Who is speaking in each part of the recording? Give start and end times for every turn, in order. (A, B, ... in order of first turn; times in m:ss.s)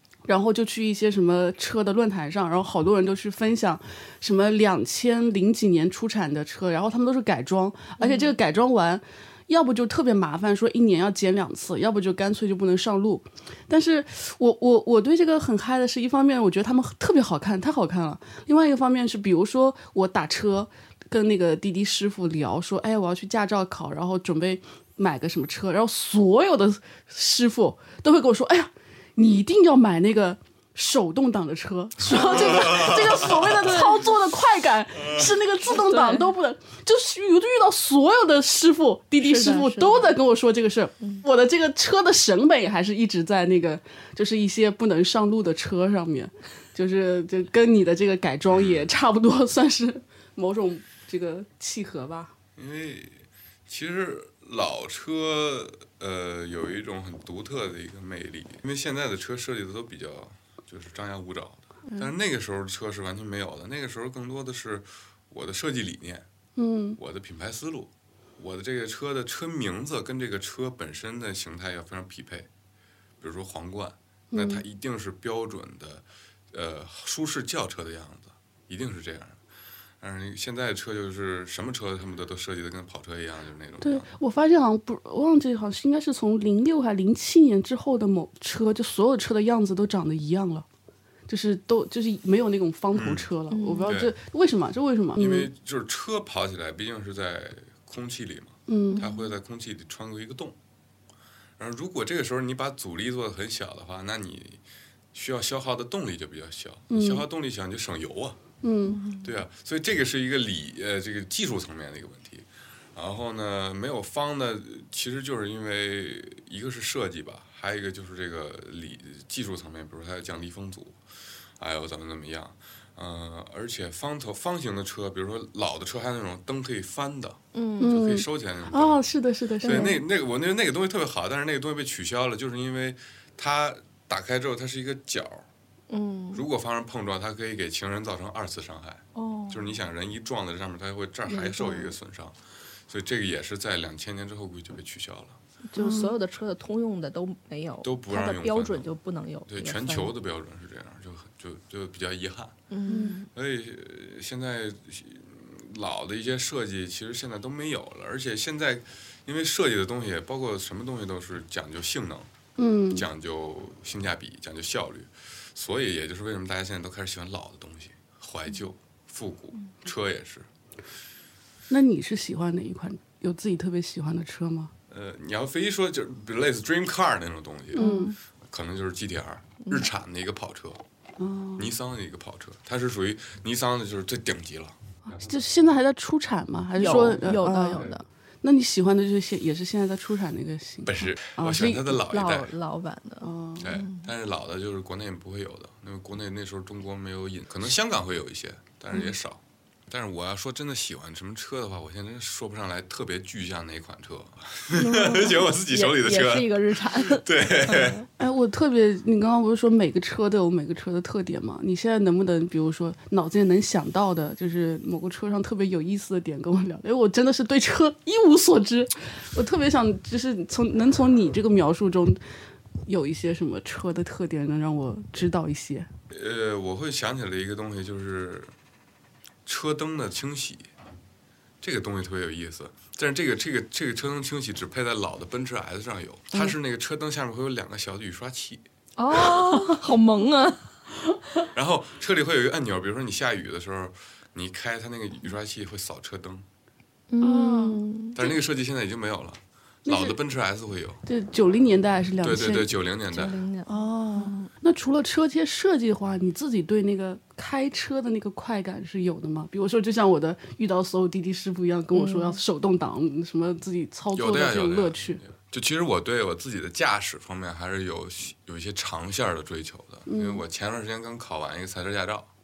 0:00.3-0:52.3 A
0:08.0-0:08.3 B
0:32.1-0:33.8 C
0:32.1-0:32.9 B
0:33.6-0:34.1 B
0:35.7-0:36.3 B
0:39.2-0:40.2 B
0:48.5-0:48.9 C
0:52.6-1:06.3 C
1:06.6-1:07.0 A
1:07.0-1:12.5 C
1:13.2-1:19.4 C
1:14.3-1:14.6 A
1:20.0-1:24.1 C
1:23.8-1:30.6 A
1:31.3-1:35.5 A
1:32.9-1:33.3 C
1:33.5-1:33.9 B
1:33.9-1:34.1 C
1:35.2-1:40.6 C
1:38.7-1:39.0 A
1:38.9-1:39.3 B
1:41.6-1:44.6 C
1:45.1-1:48.4 C
1:46.9-1:47.3 A
1:48.6-1:49.0 A
1:48.8-1:49.3 B
1:49.2-2:01.0 C
2:01.6-2:09.0 C
2:07.5-2:07.9 B
2:07.8-2:10.0 A
2:09.6-2:10.0 B
2:09.6-2:15.5 C
2:15.9-2:16.4 B
2:16.3-2:25.4 C
2:19.2-2:19.7 B
2:21.3-2:21.9 B
2:25.7-2:30.1 B
2:25.8-2:26.2 A
2:27.8-2:28.9 C
2:29.5-2:32.6 C
2:32.7-2:33.3 B
2:32.9-2:33.2 A
2:33.3-2:42.3 C
2:42.6-2:43.1 A
2:42.9-2:50.5 C
2:51.7-2:54.7 A
2:54.9-3:00.8 C
2:57.8-2:58.2 B
2:57.8-2:58.1 A
3:01.2-3:01.7 A
3:01.6-3:05.4 C
3:05.1-3:12.0 A
3:06.8-3:08.0 B
3:10.8-3:12.5 C
3:12.0-3:14.1 B
3:13.2-3:13.7 A
3:13.6-3:28.1 C
3:24.7-3:28.1 B
3:28.2-3:42.2 A
3:42.9-3:45.9 A
3:46.1-3:48.5 C
3:49.5-3:50.7 C
3:51.6-3:58.6 C
3:59.0-4:00.6 B
4:01.5-4:06.5 C
4:07.1-4:08.2 B
4:07.2-4:07.8 A
4:08.2-4:11.0 C
4:09.9-4:10.2 A
4:11.1-4:12.7 A
4:12.2-4:13.4 C
4:13.1-4:14.5 B
4:13.7-4:25.2 A
4:21.9-4:22.4 B
4:24.1-4:32.3 C
4:30.1-4:30.4 A